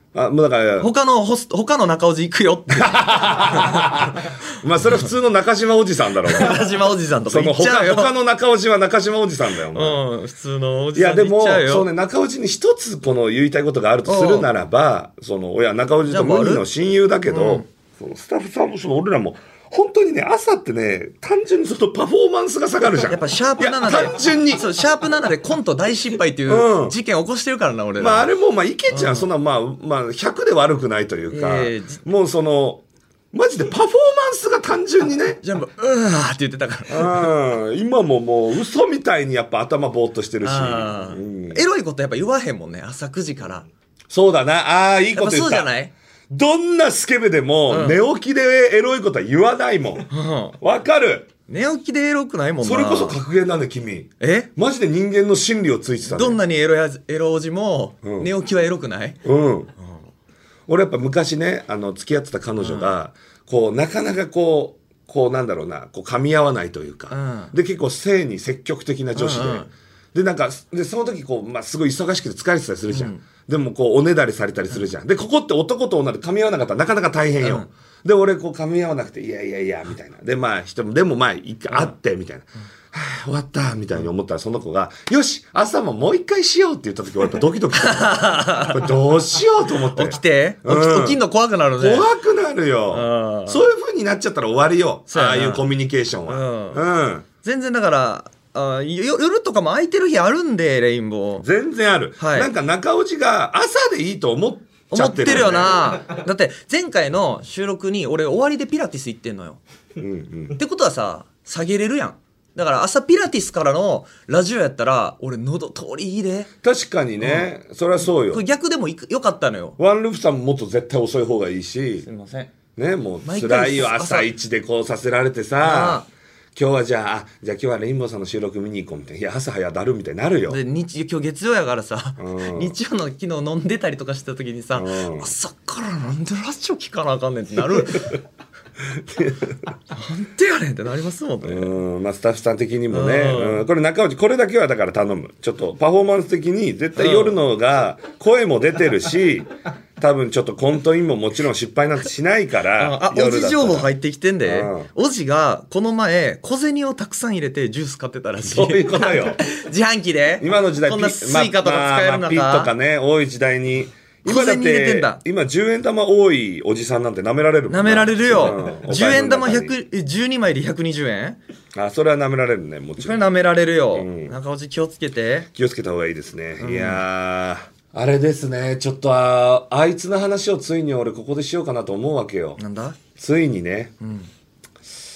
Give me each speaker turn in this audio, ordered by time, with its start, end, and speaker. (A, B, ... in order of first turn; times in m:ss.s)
0:00.1-0:00.9 A
0:00.8-0:04.1 B
0:02.7-0:06.6 A
0:06.3-0:08.1 B
0:07.3-0:10.0 A
0:09.7-0:11.9 B
0:10.9-0:24.6 A
0:14.0-0:14.5 B
0:16.0-0:16.6 B
0:17.3-0:17.6 B
0:23.1-0:28.3 B
0:26.5-0:26.9 A
0:28.0-0:35.4 A
0:28.9-0:29.3 B
0:31.3-0:32.0 B
0:35.4-0:37.3 B
0:36.9-0:41.6 A
0:40.4-0:43.7 B
0:44.1-0:45.7 A
0:45.1-0:45.9 B
0:46.3-0:51.3 A
0:47.7-0:48.0 B
0:50.1-0:50.6 B
0:51.5-0:53.2 B
0:52.6-0:56.4 A
0:54.2-0:54.5 B
0:56.0-0:59.2 B
0:58.0-0:58.3 A
0:59.2-0:59.7 A
1:00.7-1:31.2 A
1:02.6-1:02.9 B
1:07.1-1:07.5 B
1:09.1-1:09.7 B
1:12.9-1:13.2 B
1:17.4-1:17.7 B
1:27.8-1:28.8 B
1:29.9-1:32.1 B
1:31.8-1:37.2 A
1:32.9-1:33.6 B
1:35.1-1:35.6 B
1:36.3-1:36.8 B
1:37.4-1:41.4 B
1:41.4-1:45.8 A
1:42.2-1:42.5 B
1:44.9-1:49.6 B
1:50.0-1:50.6 A
1:50.5-1:56.5 B
1:56.6-1:58.4 A
1:57.2-1:57.5 B
1:58.0-1:59.8 B
1:59.8-2:02.1 A
2:02.0-2:02.5 B
2:02.8-2:06.0 A
2:03.2-2:04.3 B
2:05.6-2:06.1 B
2:06.5-2:10.6 A
2:10.5-2:18.2 B
2:12.2-2:12.7 A
2:14.7-2:15.3 A
2:18.9-2:19.6 A
2:19.9-2:21.7 B
2:21.4-2:33.9 A
2:22.9-2:23.6 B
2:27.0-2:27.4 B
2:32.8-2:42.7 B
2:34.4-2:34.9 A
2:38.4-2:39.4 A
2:40.4-2:49.7 A
2:44.2-2:45.2 B
2:47.7-2:51.4 B
2:51.7-2:53.2 A
2:53.0-2:55.5 B
2:53.9-2:54.3 A
2:55.5-3:02.6 A
2:56.6-2:57.0 B
3:02.6-3:03.0 B
3:03.1-3:03.9 A
3:04.0-3:04.3 B